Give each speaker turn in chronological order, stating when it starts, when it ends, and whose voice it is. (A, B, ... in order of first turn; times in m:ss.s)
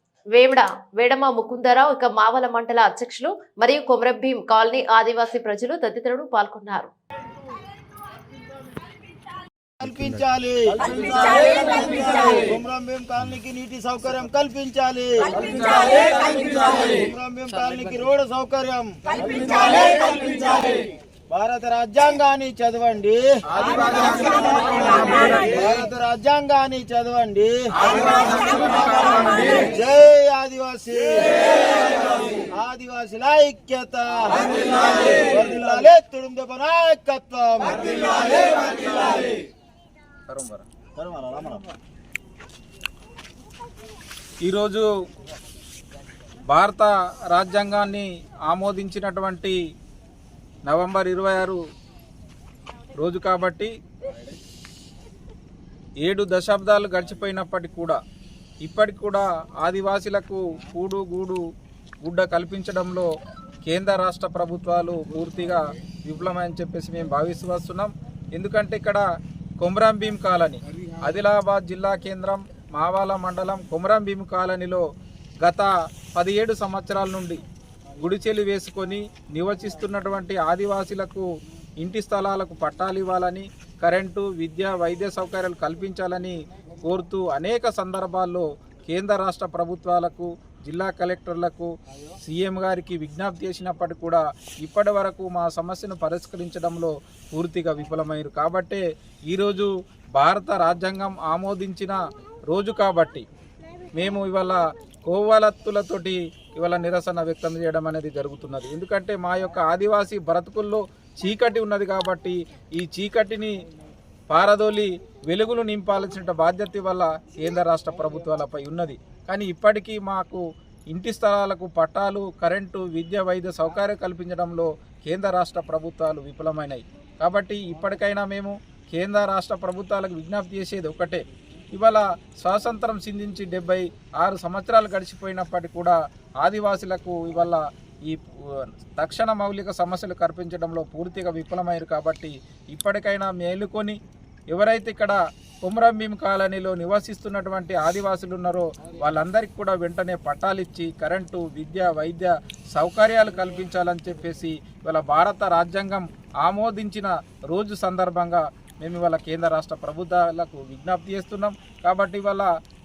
0:00.3-0:06.9 A
0:09.8-0:15.6 B
0:15.4-0:16.5 C
0:16.2-0:20.8 B
0:21.3-0:23.4 B
0:23.5-0:25.6 C
0:25.3-0:27.7 B
0:27.8-0:29.6 C
0:29.7-0:31.4 B
0:32.3-0:38.6 B
0:40.3-0:40.6 C
0:41.0-0:41.6 B
0:44.4-0:44.8 C
0:46.5-0:49.6 C
0:50.7-0:51.6 C
0:53.0-0:53.7 C
0:56.0-0:58.0 C
0:58.6-1:01.4 C
1:02.0-1:03.1 C
1:03.6-1:09.0 C
1:09.6-1:14.8 C
1:15.4-1:17.4 C
1:18.0-1:21.2 C
1:21.8-1:31.7 C
1:32.2-1:42.0 C
1:42.5-1:43.2 C
1:43.9-1:53.5 C
1:54.3-2:11.2 C
2:11.7-2:24.0 C
2:24.5-2:42.5 C